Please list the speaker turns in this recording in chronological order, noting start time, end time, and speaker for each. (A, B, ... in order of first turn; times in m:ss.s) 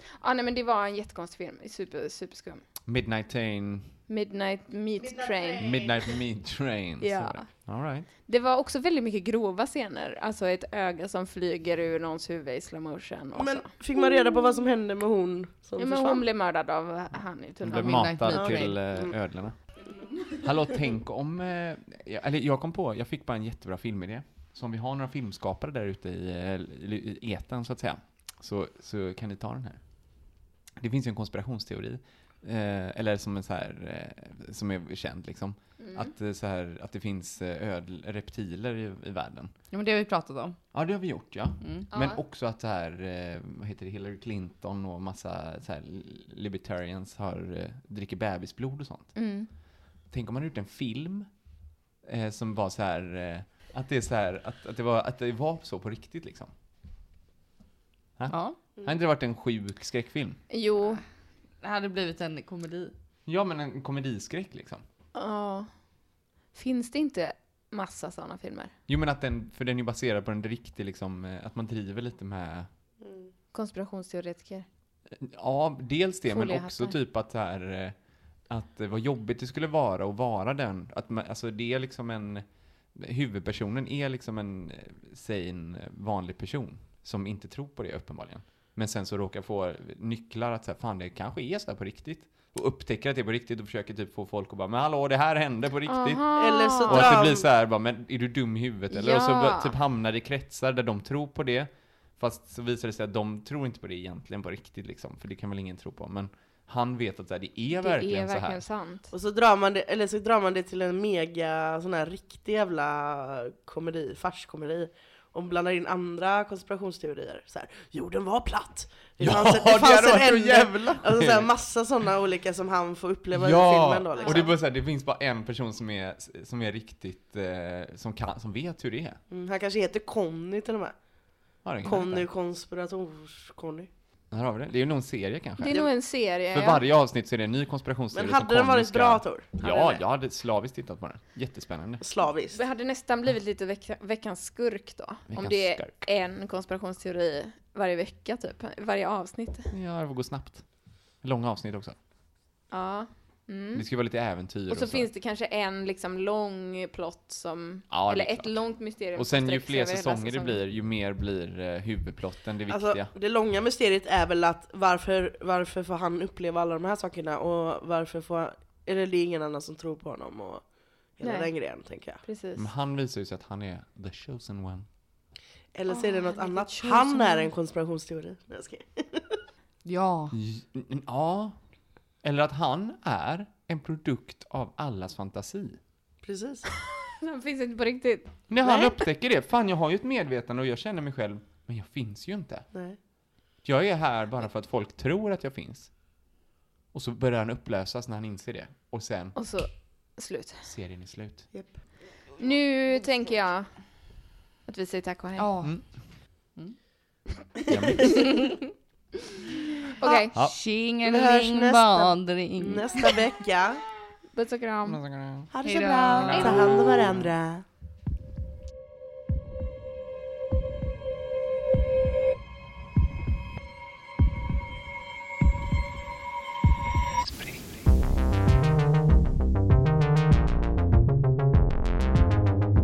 0:00.2-0:02.6 A
0:02.9-0:03.9 B
0:04.1-0:05.7 A
0:05.6-0:08.1 B
0:07.0-0:07.4 A
0:08.2-0:14.2 A
0:13.4-0:16.2 C
0:15.8-0:18.3 A
0:17.6-0:19.6 B
0:17.8-0:18.8 D
0:18.3-0:19.1 C
0:20.4-0:29.8 B
0:30.8-0:39.5 B
0:35.8-0:36.1 A
0:39.7-0:40.6 D
0:40.7-0:49.2 B
0:41.6-0:41.9 D
0:41.9-0:42.2 A
0:49.1-0:49.5 A
0:50.1-0:51.3 B
0:52.0-0:56.5 B
0:58.2-1:00.4 B
0:58.3-0:58.6 D
1:00.5-1:01.0 A
1:01.6-1:02.9 D
1:03.3-1:04.8 B
1:05.1-1:05.7 A
1:06.5-1:08.7 A
1:08.9-1:12.7 B
1:13.0-1:13.3 C
1:13.5-1:14.6 A
1:15.1-1:17.9 B
1:16.3-1:17.0 A
1:18.5-1:36.2 B
1:35.9-1:37.2 A
1:36.4-1:37.4 C
1:36.9-1:48.6 B
1:38.9-1:39.7 A
1:47.8-1:49.1 A
1:49.1-2:04.5 C
1:59.2-2:01.5 B
2:03.3-2:09.2 B
2:04.2-2:04.5 A
2:09.3-2:10.9 C
2:11.6-2:12.3 B
2:11.8-2:13.9 C
2:14.3-2:15.9 B
2:15.6-2:16.8 A
2:16.5-2:22.0 B
2:18.1-2:20.0 C
2:22.0-2:22.6 C
2:22.5-2:29.7 A
2:25.3-2:26.0 B
2:29.7-2:30.6 B
2:31.2-2:32.0 B
2:32.7-2:33.8 A
2:33.7-2:35.1 B
2:34.7-2:40.6 A
2:37.9-2:38.6 B
2:39.1-2:43.1 B
2:42.7-2:50.6 C
2:51.2-2:52.2 C
2:51.2-2:51.5 A
2:52.2-2:52.7 A
2:52.6-2:54.9 B
2:55.7-2:59.4 C
2:56.2-2:57.5 D
2:59.8-3:00.3 D
3:00.3-3:01.6 B
3:02.2-3:05.8 B
3:06.2-3:06.6 C
3:07.2-3:08.3 A
3:08.5-3:12.7 B
3:08.6-3:08.9 C
3:13.6-3:15.9 B
3:16.9-3:19.4 B
3:19.3-3:20.6 A
3:20.6-3:21.5 B
3:22.4-3:23.7 A
3:24.7-3:25.5 A
3:25.4-3:25.8 D
3:27.7-3:28.1 B
3:28.3-3:28.5 D
3:29.6-3:30.3 A
3:30.1-3:33.2 D
3:31.0-3:33.8 C
3:34.3-3:35.0 A
3:34.8-3:35.5 B
3:35.5-3:37.6 C
3:35.6-3:36.6 D
3:36.2-3:37.3 B
3:47.3-3:47.8 B